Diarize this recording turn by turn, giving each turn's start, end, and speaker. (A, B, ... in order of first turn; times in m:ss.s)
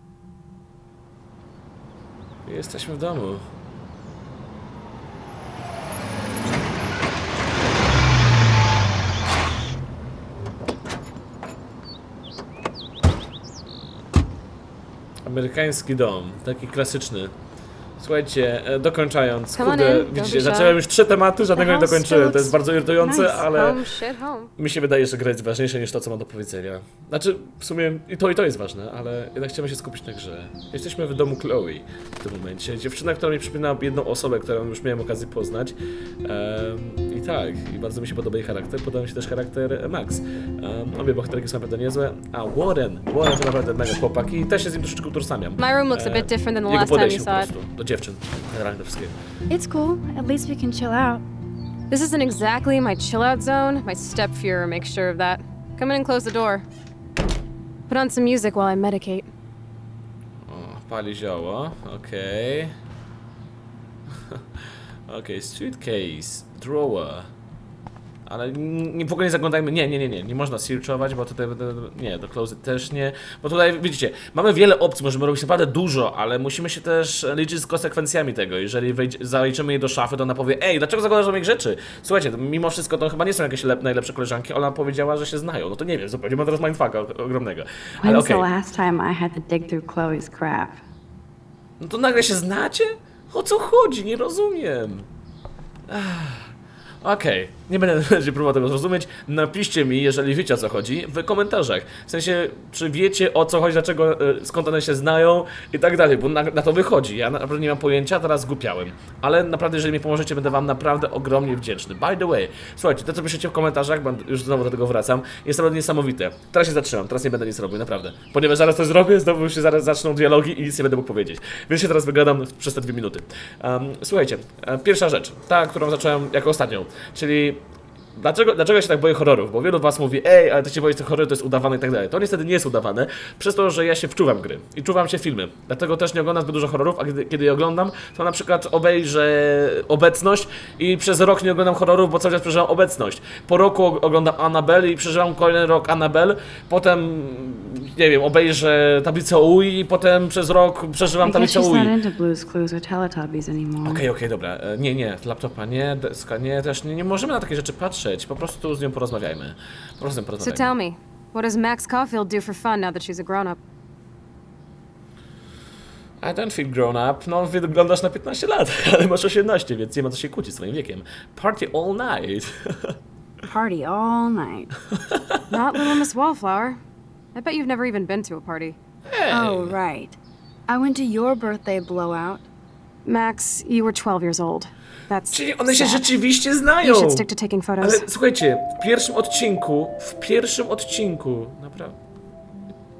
0:02.4-0:03.4 A
0:15.2-0:17.3 A
0:18.0-0:23.8 A
0:19.5-0:20.8 B
0:21.5-0:23.4 C
0:23.5-0:24.5 B
0:24.6-0:49.2 A
0:45.6-0:47.5 B
0:49.5-0:51.2 C
0:51.9-0:56.6 B
0:57.9-0:59.3 B
1:00.5-1:02.7 A
1:04.3-1:07.3 A
1:08.2-1:28.5 A
1:28.0-1:30.8 C
1:31.8-1:35.1 A
1:35.9-2:07.6 A
2:08.1-2:31.9 A
2:31.2-2:34.0 C
2:33.8-2:40.7 A
2:40.4-2:43.6 B
2:46.2-2:53.0 A
2:53.5-2:54.7 C
2:55.1-2:55.4 A
2:55.5-2:56.8 B
2:57.3-2:58.8 B
2:59.1-2:59.8 A
2:59.3-3:02.4 C
3:03.0-3:06.1 B
3:05.3-3:07.2 A
3:06.8-3:08.1 B
3:07.8-3:12.0 A